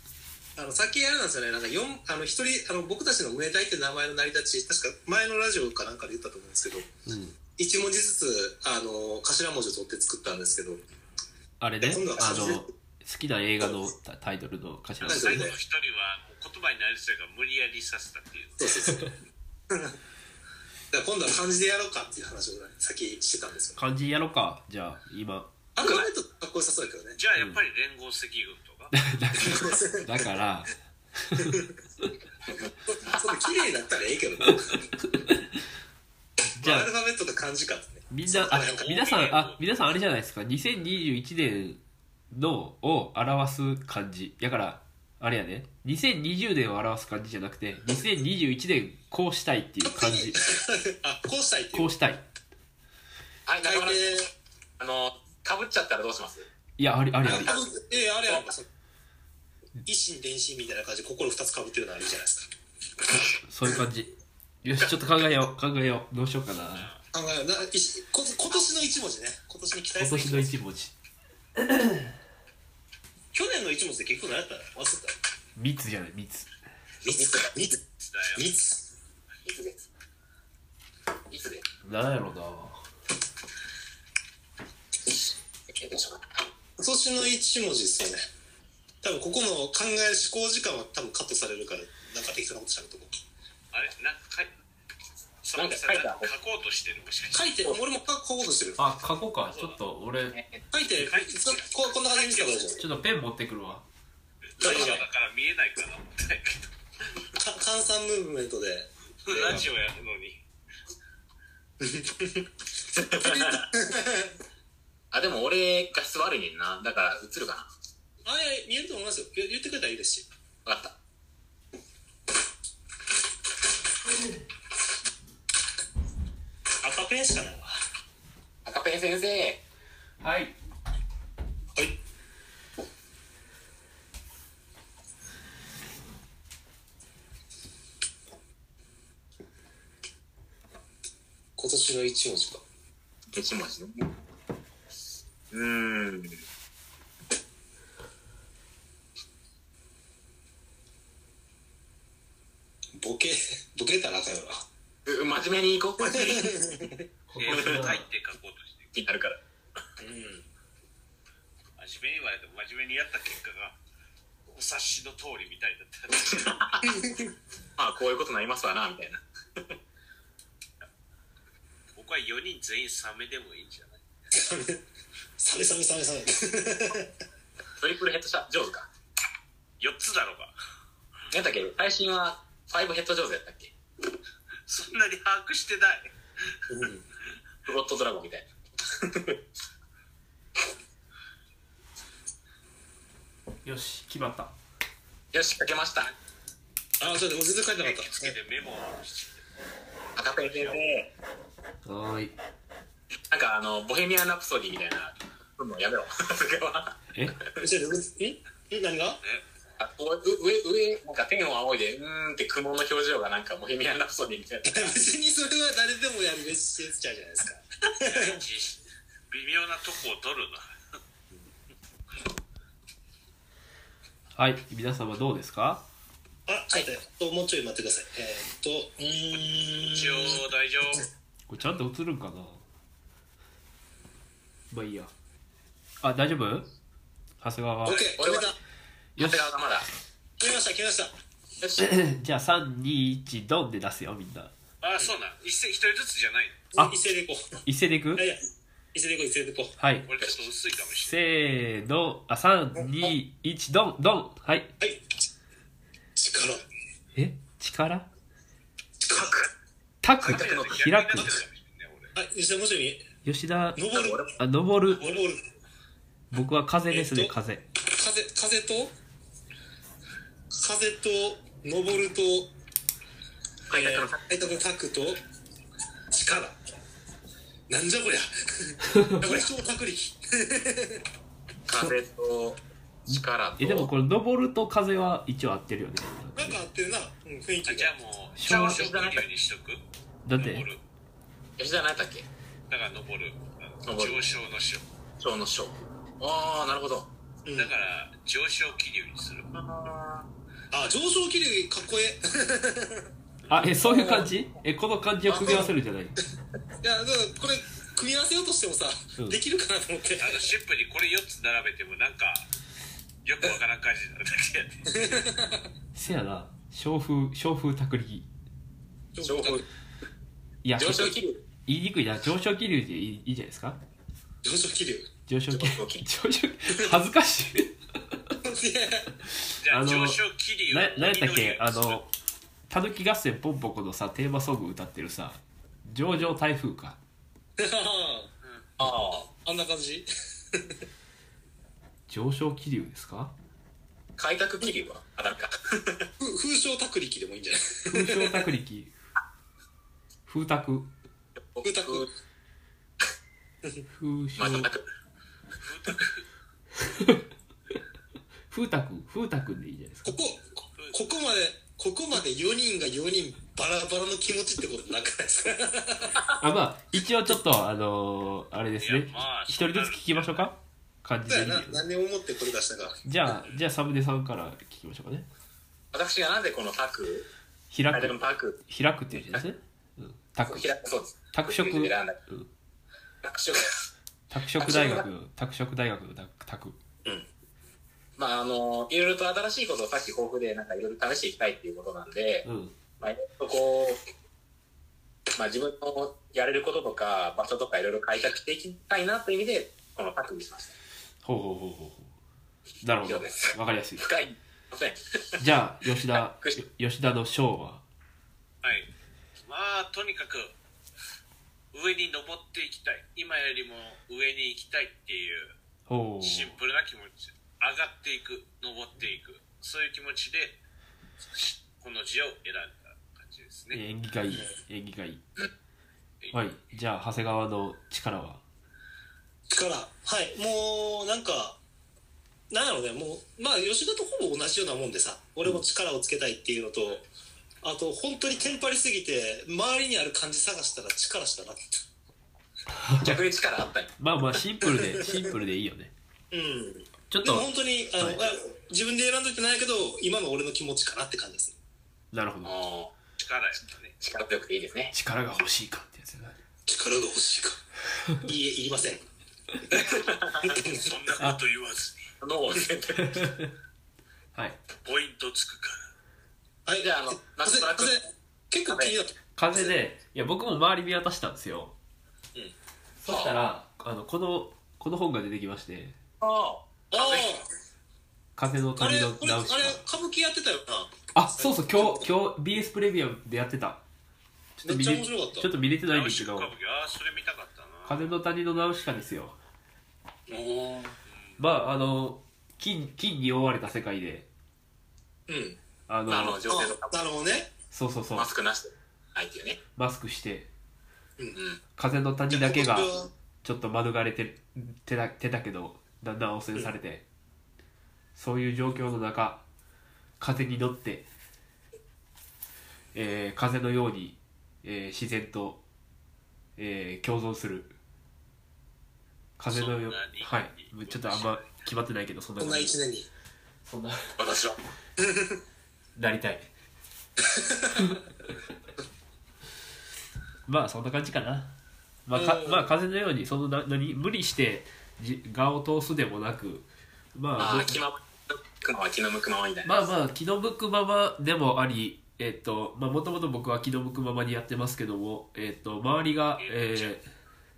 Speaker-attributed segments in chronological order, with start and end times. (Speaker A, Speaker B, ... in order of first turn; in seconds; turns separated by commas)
Speaker A: 0.6-6.9, Speaker B: 7.0-7.4, Speaker A: 7.6-10.8, Speaker B: 11.6-15.4, Speaker A: 11.8-12.7, Speaker C: 15.0-18.8, Speaker A: 15.0-15.6, Speaker A: 18.6-19.0, Speaker B: 18.9-19.1, Speaker A: 19.7-19.9, Speaker A: 20.9-23.8, Speaker B: 23.8-25.5, Speaker A: 25.8-27.2, Speaker C: 27.2-28.9, Speaker B: 27.4-27.6, Speaker B: 28.9-31.6, Speaker A: 29.4-30.2, Speaker A: 31.4-31.7, Speaker D: 32.6-33.2, Speaker A: 32.9-34.9, Speaker B: 35.0-35.6, Speaker B: 36.6-36.9, Speaker A: 36.6-38.9, Speaker B: 38.1-41.8, Speaker C: 38.5-39.6, Speaker B: 42.3-50.4, Speaker A: 49.8-51.9, Speaker B: 51.7-52.2, Speaker D: 53.5-54.2, Speaker A: 53.6-54.3, Speaker D: 54.8-56.5, Speaker B: 56.8-57.5, Speaker A: 57.2-58.7, Speaker A: 59.8-62.5, Speaker B: 63.1-64.1, Speaker B: 64.6-66.9, Speaker C: 66.7-67.0, Speaker A: 67.1-70.5, Speaker B: 70.0-70.9, Speaker B: 71.6-72.1, Speaker A: 73.3-75.2, Speaker B: 75.5-76.5, Speaker A: 77.0-77.8, Speaker D: 77.2-77.5, Speaker C: 78.0-78.5, Speaker A: 78.3-78.8, Speaker D: 79.4-79.8, Speaker D: 81.3-81.6, Speaker B: 81.8-82.8, Speaker D: 85.7-86.2, Speaker A: 86.8-88.2, Speaker A: 89.0-93.2, Speaker C: 93.7-94.5, Speaker C: 95.4-97.7, Speaker D: 95.5-96.3, Speaker A: 97.3-98.8, Speaker B: 98.8-100.4, Speaker C: 99.4-99.8, Speaker D: 100.3-100.6, Speaker A: 100.7-102.8, Speaker C: 101.0-102.7, Speaker B: 102.8-103.8, Speaker C: 104.6-106.7, Speaker A: 104.6-105.0, Speaker D: 104.6-105.0, Speaker A: 107.3-109.7, Speaker C: 109.2-110.4, Speaker A: 111.8-112.5, Speaker D: 112.9-113.7, Speaker A: 113.1-114.3, Speaker D: 115.1-117.7, Speaker A: 118.2-120.3, Speaker D: 120.6-121.0, Speaker A: 126.8-127.8, Speaker D: 128.6-129.6, Speaker B: 130.2-130.5, Speaker A: 141.6-142.6, Speaker D: 143.3-144.1, Speaker D: 145.5-146.4, Speaker A: 152.9-154.6, Speaker D: 155.1-156.6, Speaker A: 156.0-157.0, Speaker B: 157.3-158.0, Speaker C: 157.4-158.9, Speaker D: 157.5-157.8, Speaker D: 158.9-159.4, Speaker A: 160.0-160.4, Speaker C: 161.8-163.8, Speaker C: 164.5-166.8, Speaker D: 166.3-166.8, Speaker A: 166.8-167.3, Speaker D: 167.8-169.2, Speaker C: 171.9-174.0, Speaker A: 174.3-174.8, Speaker A: 175.4-177.1, Speaker D: 177.8-178.9, Speaker C: 179.8-180.5, Speaker D: 181.3-183.7, Speaker C: 184.7-186.1, Speaker A: 186.7-187.0, Speaker D: 187.7-189.4, Speaker B: 193.6-194.5, Speaker D: 195.3-196.1, Speaker A: 197.0-198.3, Speaker C: 197.8-199.4, Speaker D: 200.2-201.1, Speaker C: 200.3-200.8, Speaker B: 201.8-202.3, Speaker D: 203.3-207.6, Speaker A: 207.6-209.2, Speaker D: 209.8-214.9, Speaker A: 214.6-218.4, Speaker C: 218.0-220.7, Speaker B: 224.3-225.8, Speaker A: 226.5-230.4, Speaker C: 229.8-231.1, Speaker B: 231.5-232.6, Speaker B: 234.7-235.1, Speaker B: 236.0-236.7, Speaker B: 237.4-238.1, Speaker A: 237.8-238.6, Speaker D: 238.2-238.5, Speaker B: 239.2-239.5, Speaker D: 239.2-239.9, Speaker A: 240.4-241.1, Speaker D: 241.6-241.9, Speaker B: 241.8-244.5, Speaker C: 244.8-246.6, Speaker A: 246.7-247.5, Speaker B: 247.6-248.3, Speaker A: 248.2-248.4, Speaker A: 248.9-249.7, Speaker B: 249.8-250.1, Speaker C: 250.1-251.2, Speaker B: 251.0-254.7, Speaker A: 254.8-255.1, Speaker A: 256.1-256.6, Speaker B: 257.1-258.1, Speaker A: 259.0-259.4, Speaker B: 260.0-261.4, Speaker D: 260.2-260.8, Speaker C: 260.2-262.1, Speaker A: 262.1-263.0, Speaker B: 263.2-263.8, Speaker A: 263.7-264.3, Speaker D: 263.9-264.3, Speaker B: 264.4-265.0, Speaker A: 264.9-265.4, Speaker C: 264.9-265.3, Speaker B: 266.3-267.6, Speaker A: 266.9-268.9, Speaker A: 270.5-272.5, Speaker D: 273.7-274.2, Speaker A: 273.7-275.2, Speaker A: 276.1-276.6, Speaker A: 277.7-281.0, Speaker B: 278.9-279.2, Speaker D: 281.7-283.9, Speaker B: 283.1-286.6, Speaker A: 286.4-287.9, Speaker C: 287.6-289.8, Speaker B: 288.4-288.8, Speaker D: 288.5-289.2, Speaker B: 290.2-290.6, Speaker C: 290.4-290.8, Speaker D: 291.6-292.2, Speaker C: 292.7-294.8, Speaker D: 293.9-294.2, Speaker D: 295.2-297.1, Speaker A: 297.4-297.7, Speaker C: 297.5-299.5, Speaker D: 299.5-300.2, Speaker A: 300.7-303.1, Speaker B: 303.5-306.2, Speaker D: 303.8-304.3, Speaker A: 305.3-305.7, Speaker A: 306.8-310.5, Speaker C: 310.2-312.5, Speaker C: 313.2-315.2, Speaker A: 314.9-315.7, Speaker B: 315.9-318.3, Speaker A: 319.1-319.6, Speaker D: 319.2-319.6, Speaker B: 320.6-323.8, Speaker D: 320.8-321.4, Speaker A: 324.4-325.1, Speaker B: 325.3-328.3, Speaker D: 325.5-326.0, Speaker A: 328.4-329.1, Speaker B: 329.2-332.1, Speaker C: 329.6-332.1, Speaker B: 332.7-337.0, Speaker A: 337.6-338.3, Speaker D: 338.8-339.3, Speaker A: 339.3-340.8, Speaker B: 342.1-343.3, Speaker D: 344.2-346.1, Speaker A: 346.2-348.4, Speaker B: 347.9-348.9, Speaker B: 350.3-350.9, Speaker D: 351.5-352.1, Speaker A: 351.6-352.1, Speaker B: 353.9-354.7, Speaker D: 354.4-354.8, Speaker C: 355.6-356.2, Speaker B: 356.8-357.2, Speaker B: 358.5-360.2, Speaker A: 360.0-366.2, Speaker C: 360.8-361.1, Speaker B: 366.4-371.8, Speaker C: 368.8-370.5, Speaker A: 371.3-373.0, Speaker B: 373.0-375.2, Speaker D: 375.9-377.3, Speaker B: 377.7-380.7, Speaker D: 377.9-378.6, Speaker D: 380.4-382.2, Speaker B: 381.3-382.5, Speaker D: 383.2-383.7, Speaker B: 384.3-386.8, Speaker D: 384.6-385.0, Speaker D: 388.2-392.4, Speaker B: 392.4-392.7, Speaker D: 393.0-394.0, Speaker D: 395.4-400.7, Speaker B: 401.2-402.1, Speaker B: 402.8-404.1, Speaker D: 403.0-405.4, Speaker B: 405.4-407.8, Speaker C: 408.6-410.5, Speaker C: 411.7-415.5, Speaker B: 415.9-416.6, Speaker C: 416.2-420.6, Speaker C: 421.3-423.8, Speaker B: 423.7-425.2, Speaker B: 426.3-428.4, Speaker A: 429.5-431.6, Speaker A: 432.5-437.1, Speaker A: 437.6-441.8, Speaker B: 442.7-443.2, Speaker D: 443.0-443.9, Speaker B: 444.0-445.9, Speaker A: 444.6-445.3, Speaker A: 446.3-451.6, Speaker B: 447.1-447.5, Speaker B: 452.1-452.5, Speaker D: 452.4-452.9, Speaker C: 453.2-453.9, Speaker D: 454.0-454.9, Speaker B: 454.9-456.4, Speaker A: 456.6-457.6, Speaker A: 458.2-459.0, Speaker D: 459.7-460.6, Speaker A: 460.4-460.9, Speaker C: 460.7-462.1, Speaker D: 462.2-463.3, Speaker B: 463.0-463.5, Speaker C: 464.8-465.9, Speaker A: 466.6-469.1, Speaker D: 466.8-468.0, Speaker D: 468.7-468.9, Speaker B: 469.4-471.7, Speaker B: 473.0-475.9, Speaker D: 473.1-473.3, Speaker D: 476.2-477.3, Speaker A: 476.9-477.5, Speaker B: 478.4-479.8, Speaker A: 478.8-482.1, Speaker B: 481.1-483.8, Speaker B: 484.6-486.5, Speaker A: 484.6-485.5, Speaker C: 485.9-488.1, Speaker B: 487.9-489.4, Speaker A: 490.3-490.9, Speaker C: 491.1-491.4, Speaker B: 491.4-494.3, Speaker A: 495.3-495.6, Speaker B: 495.9-496.4, Speaker D: 496.1-497.0, Speaker A: 496.5-497.5, Speaker B: 497.7-498.3, Speaker D: 498.1-499.6, Speaker B: 499.8-500.5, Speaker B: 501.8-502.9, Speaker A: 502.3-503.1, Speaker B: 503.4-507.0, Speaker B: 508.1-509.4, Speaker B: 510.2-511.1, Speaker B: 512.9-515.6, Speaker B: 516.6-517.7, Speaker B: 519.4-522.7, Speaker C: 519.5-521.5, Speaker A: 522.4-523.1, Speaker B: 523.6-524.1, Speaker D: 524.2-524.6, Speaker A: 525.0-525.4, Speaker B: 526.0-526.5, Speaker A: 527.2-527.9, Speaker B: 530.5-531.5, Speaker B: 532.1-537.8, Speaker A: 532.1-532.7, Speaker D: 537.4-539.9, Speaker B: 539.6-547.0, Speaker C: 546.4-547.0